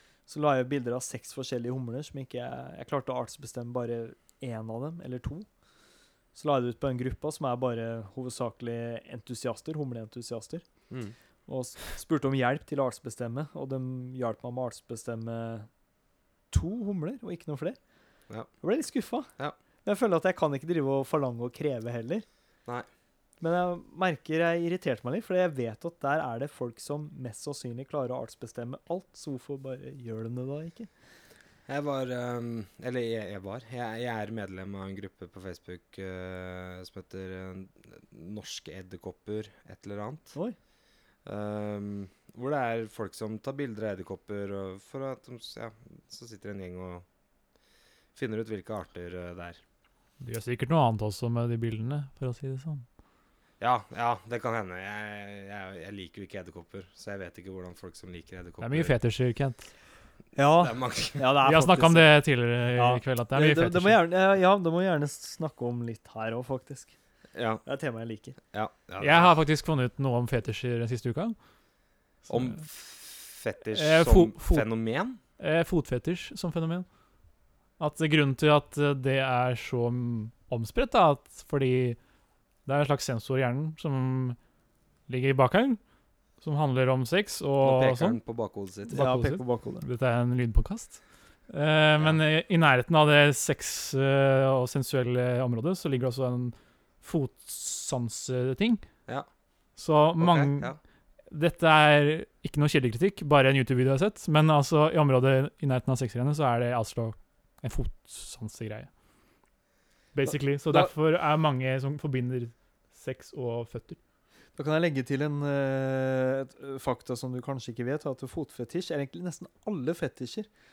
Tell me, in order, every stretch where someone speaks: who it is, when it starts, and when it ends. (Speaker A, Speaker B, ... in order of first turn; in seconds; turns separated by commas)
Speaker A: 0.3-5.5, Speaker A: 6.3-10.6, Speaker A: 11.5-15.7, Speaker A: 16.5-17.8, Speaker A: 18.6-19.3, Speaker A: 19.8-22.2, Speaker A: 23.4-30.9, Speaker B: 31.7-40.3, Speaker B: 41.2-47.0, Speaker B: 48.1-49.6, Speaker C: 50.2-52.8, Speaker B: 53.6-58.9, Speaker C: 58.6-59.7, Speaker A: 60.3-62.1, Speaker B: 60.6-61.2, Speaker C: 61.4-64.0, Speaker A: 62.7-66.9, Speaker B: 67.3-67.6, Speaker A: 67.6-68.3, Speaker B: 68.5-69.3, Speaker C: 69.0-71.3, Speaker C: 72.3-72.6, Speaker B: 72.3-75.2, Speaker C: 73.7-74.7, Speaker C: 75.4-76.8, Speaker C: 77.8-82.0, Speaker C: 82.7-84.4, Speaker C: 85.1-85.8, Speaker C: 86.4-88.2, Speaker B: 87.6-89.0, Speaker C: 88.9-98.8, Speaker A: 88.9-89.8, Speaker C: 99.8-100.7, Speaker B: 100.2-100.8, Speaker C: 101.3-108.9, Speaker C: 110.1-114.0, Speaker A: 114.5-120.5